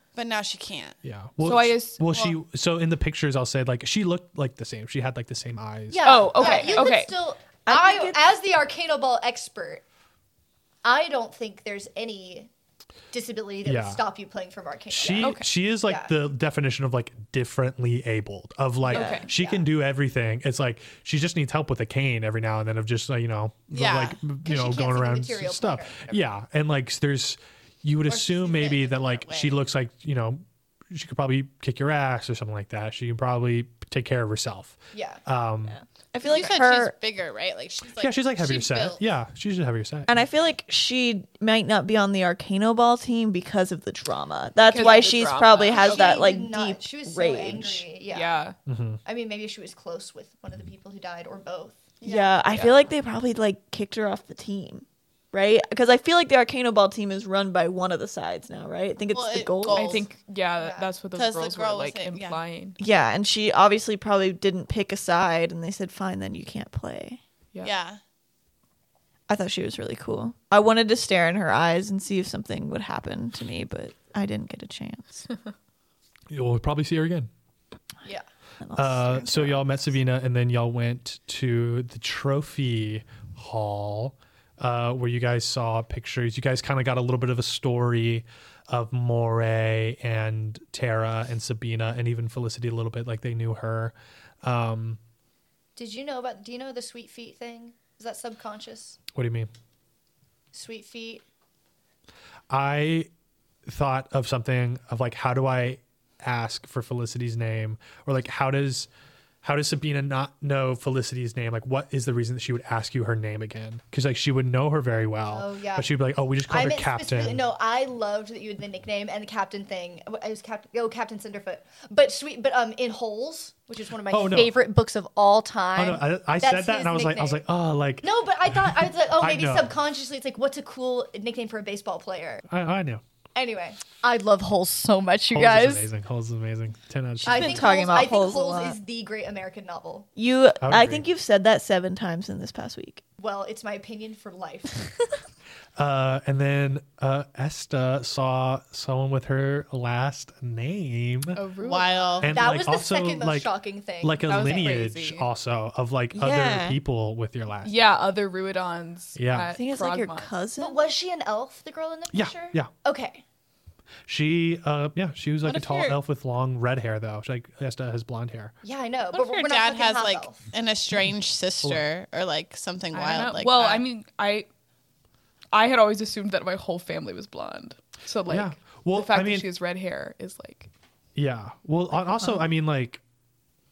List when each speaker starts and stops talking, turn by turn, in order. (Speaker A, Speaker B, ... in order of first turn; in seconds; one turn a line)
Speaker A: 0.1-1.0
Speaker B: 1.0-6.2
Speaker C: 1.4-2.4
Speaker D: 5.9-9.8
Speaker C: 6.0-7.1
Speaker E: 6.4-6.9
Speaker E: 7.7-8.3
Speaker D: 10.8-12.5
Speaker D: 13.1-16.1
Speaker B: 13.7-14.0
Speaker B: 14.9-35.8
Speaker C: 15.2-15.5
Speaker D: 18.9-19.7
Speaker E: 18.9-19.2
Speaker C: 18.9-19.3
Speaker A: 23.7-24.2
Speaker D: 24.4-26.2
Speaker D: 28.1-28.8
Speaker A: 28.1-29.6
Speaker D: 34.9-35.2
Speaker E: 35.7-36.9
Speaker A: 36.2-39.0
Speaker B: 38.0-40.1
Speaker E: 40.1-47.9
Speaker C: 44.6-46.2
Speaker D: 45.7-48.5
Speaker C: 48.1-48.6
Speaker B: 48.7-49.0
Speaker D: 49.0-52.0
Speaker A: 52.0-52.8
Speaker E: 52.0-60.1
Speaker A: 59.1-60.1
Speaker C: 59.7-62.8
Speaker D: 60.6-60.9
Speaker A: 61.2-62.4
Speaker E: 62.8-67.2
Speaker A: 67.6-68.0
Speaker E: 69.3-75.2
Speaker B: 76.3-77.3
Speaker E: 78.6-79.7
Speaker B: 78.8-95.0
Speaker D: 95.8-99.0
Speaker B: 99.1-99.5
Speaker D: 100.5-101.2
Speaker B: 102.5-103.1
Speaker B: 103.7-108.9
Speaker B: 109.4-117.4
Speaker D: 115.3-115.9
Speaker D: 116.5-127.4
Speaker B: 124.1-124.6
Speaker B: 125.8-128.6
Speaker D: 128.0-132.4
Speaker B: 129.2-129.8
Speaker B: 132.5-133.0
Speaker D: 133.3-135.9
Speaker B: 135.3-137.8
Speaker E: 137.2-138.8
Speaker D: 137.2-140.1
Speaker E: 140.2-143.0
Speaker B: 140.6-141.1
Speaker D: 143.2-144.9
Speaker B: 145.8-151.4
Speaker C: 151.3-152.3
Speaker A: 151.6-152.4
Speaker B: 152.2-157.8
Speaker D: 152.3-154.9
Speaker C: 154.3-155.2
Speaker E: 156.1-156.8
Speaker C: 157.6-160.3
Speaker B: 159.2-159.6
Speaker E: 159.5-160.9
Speaker D: 160.6-163.2
Speaker B: 162.1-162.7
Speaker B: 164.1-168.5
Speaker A: 165.4-166.0
Speaker D: 168.6-170.4
Speaker A: 169.1-173.8
Speaker C: 172.9-174.5
Speaker C: 175.5-180.7
Speaker B: 178.3-179.5
Speaker B: 181.2-183.0
Speaker E: 182.2-182.5